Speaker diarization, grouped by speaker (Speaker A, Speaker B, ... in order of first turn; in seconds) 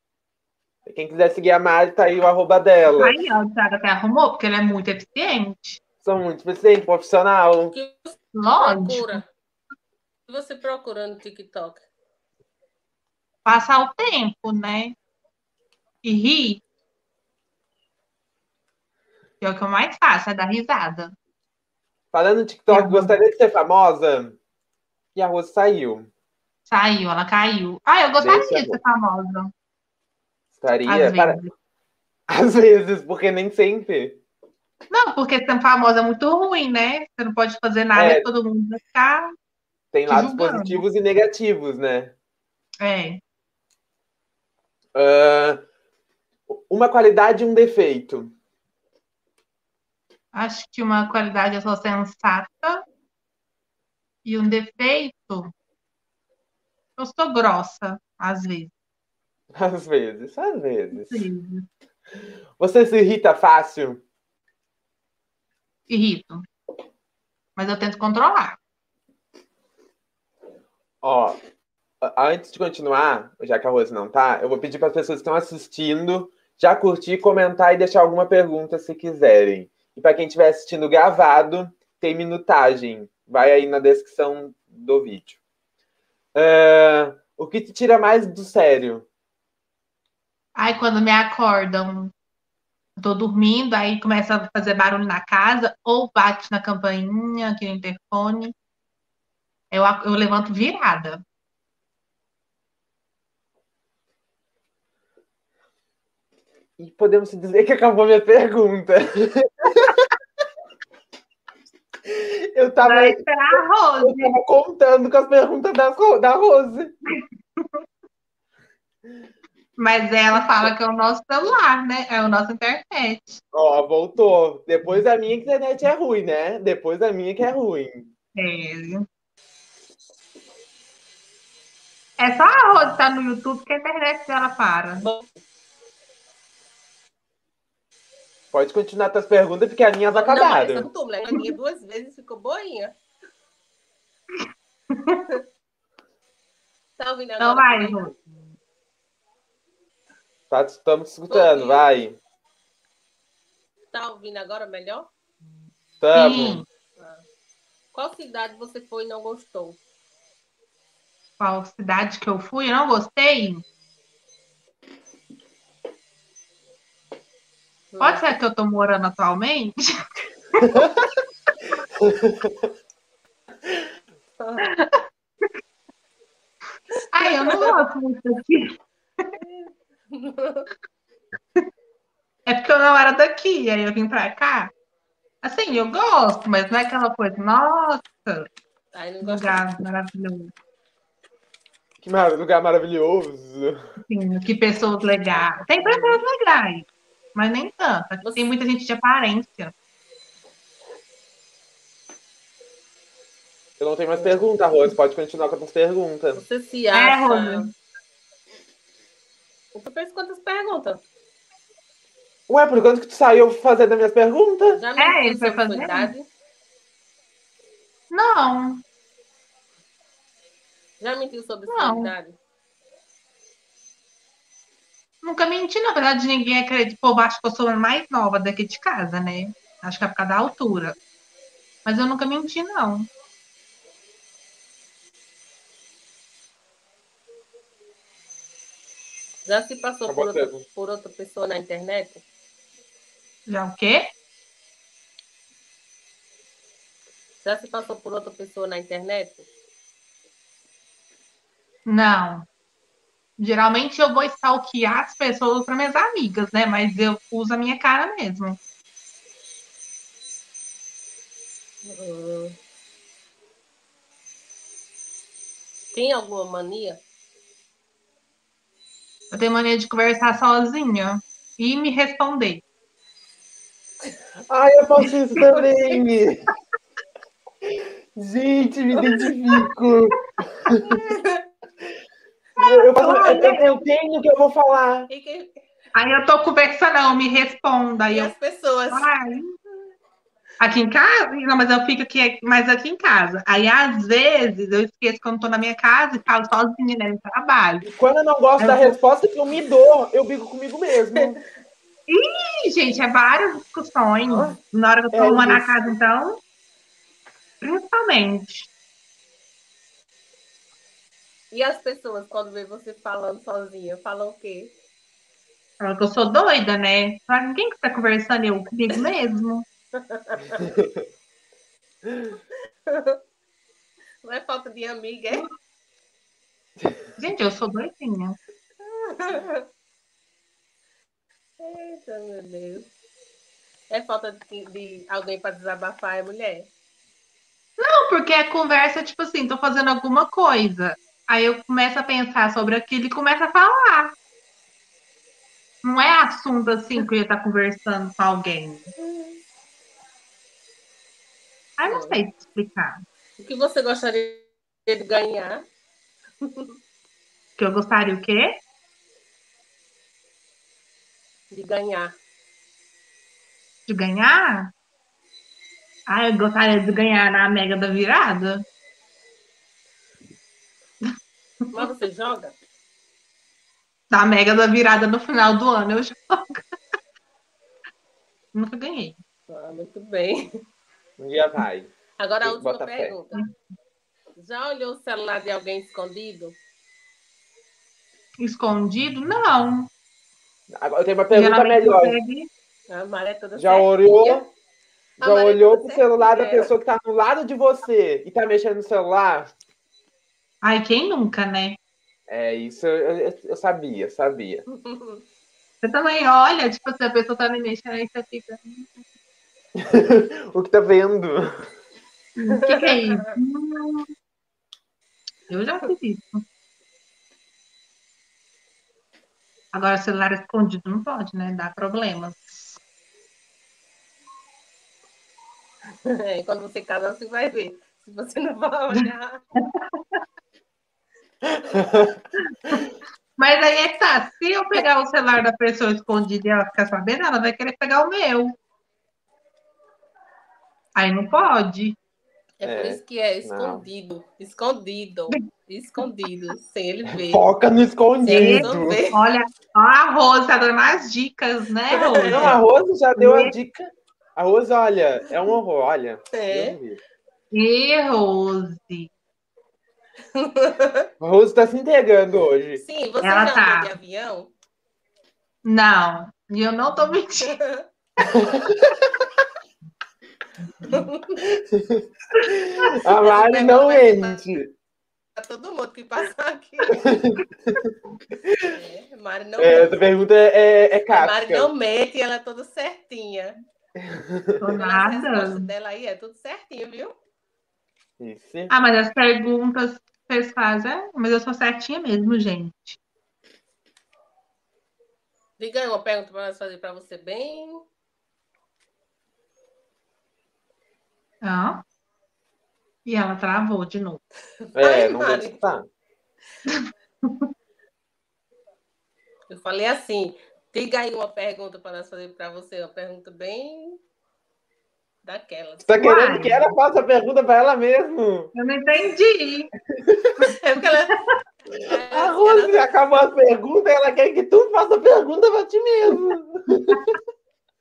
Speaker A: 0.9-3.2, 6.0-7.8, 22.1-24.4, 25.1-26.1, 28.2-28.8, 30.6-31.4, 32.3-34.2, 38.0-38.3, 39.9-42.1, 45.0-45.6, 46.5-48.3, 59.5-61.3, 62.6-64.0, 71.0-71.4, 72.0-85.4, 86.3-89.1, 106.8-110.0, 112.1-116.9, 123.5-128.1, 138.5-140.9, 150.5-152.2, 156.0-156.6, 170.6-170.9, 172.0-172.6, 192.0-193.8, 203.8-206.4, 212.5-214.8, 240.1-240.7, 274.5-276.5, 277.7-281.0, 282.6-285.1, 297.8-301.4, 304.3-304.6, 305.1-305.9, 320.6-321.0, 381.2-381.9, 382.4-383.1, 390.7-392.2, 393.6-394.5, 395.2-399.5, 402.3-404.6, 409.8-411.7, 431.4-432.2, 442.6-443.9, 447.1-449.0, 452.2-457.0, 461.2-462.8, 468.2-468.9, 471.6-474.7, 476.9-478.7, 479.6-481.7, 484.0-484.7, 488.2-488.7, 504.8-505.9, 515.8-518.5, 520.0-520.4, 522.1-527.2
Speaker B: 2.9-5.8, 8.3-9.2, 13.4-14.9, 16.0-16.6, 19.4-21.1, 22.7-23.1, 26.7-29.5, 30.9-31.5, 34.9-39.3, 40.1-40.8, 42.8-43.2, 50.3-52.8, 54.2-55.5, 57.0-58.7, 60.9-61.7, 65.9-66.5, 67.6-68.6, 90.6-92.1, 93.0-98.5, 99.7-101.2, 112.8-114.3, 119.8-123.4, 128.3-129.1, 132.2-135.1, 144.9-145.3, 147.4-148.2, 156.2-156.7, 161.4-163.6, 168.0-169.9, 170.5-170.9, 174.6-175.5, 177.1-179.3, 182.5-184.7, 185.4-188.5, 189.2-190.5, 194.1-199.7, 206.9-207.7, 215.0-216.1, 218.1-218.8, 221.7-222.1, 225.2-231.0, 231.8-233.1, 243.5-244.1, 251.9-252.5, 253.4-258.6, 269.3-272.6, 282.6-283.8, 285.9-288.3, 288.9-289.6, 290.6-297.9, 298.6-298.9, 302.1-306.4, 307.6-308.7, 315.8-319.7, 327.2-328.4, 337.8-344.1, 345.8-348.9, 351.8-353.0, 357.6-358.5, 363.9-364.7, 366.1-368.6, 374.1-376.6, 378.5-379.2, 388.4-389.9, 391.3-392.5, 400.6-401.8, 405.8-408.9, 412.4-414.1, 415.5-416.4, 419.7-422.8, 429.6-430.2, 433.4-438.6, 440.9-442.0, 448.3-452.6, 453.2-453.5, 457.5-459.1, 463.2-463.9, 465.6-467.6, 484.6-485.7, 488.7-493.0, 501.4-501.8, 503.1-504.2, 506.7-507.5, 516.0-516.7, 518.5-519.7
Speaker C: 7.7-9.3, 10.3-11.9, 135.0-135.3, 140.1-142.9, 147.0-148.0, 151.3-151.8, 153.9-155.1, 157.0-157.2, 157.9-159.8, 167.9-168.2, 174.4-174.7, 177.2-177.8, 179.4-180.7, 188.9-189.7, 198.2-198.5, 206.3-207.7, 209.7-211.0, 214.7-216.3, 221.0-222.4, 239.5-242.2, 247.4-249.5, 261.8-262.6, 265.9-267.0, 280.9-281.4, 285.1-285.6, 288.1-289.1, 311.5-314.7, 319.9-320.7, 322.9-323.2, 324.2-325.5, 328.8-329.7, 331.6-332.9, 333.9-336.7, 349.0-349.4, 351.9-352.2, 353.4-355.6, 356.4-356.8, 361.5-362.1, 371.7-372.6, 379.5-380.5, 382.2-383.4, 384.4-386.6, 392.9-394.4, 395.2-396.7, 404.7-405.2, 412.5-413.4, 426.1-429.4, 442.6-447.4, 448.2-449.2, 451.9-452.6, 456.3-456.8, 460.3-461.1, 462.8-464.5, 467.4-467.9, 470.9-471.4, 473.1-474.4, 475.4-477.2, 478.7-480.0, 481.1-483.6, 484.8-487.1, 495.6-497.8, 504.7-505.6, 509.5-514.0, 515.2-515.9, 520.5-521.2, 521.7-523.0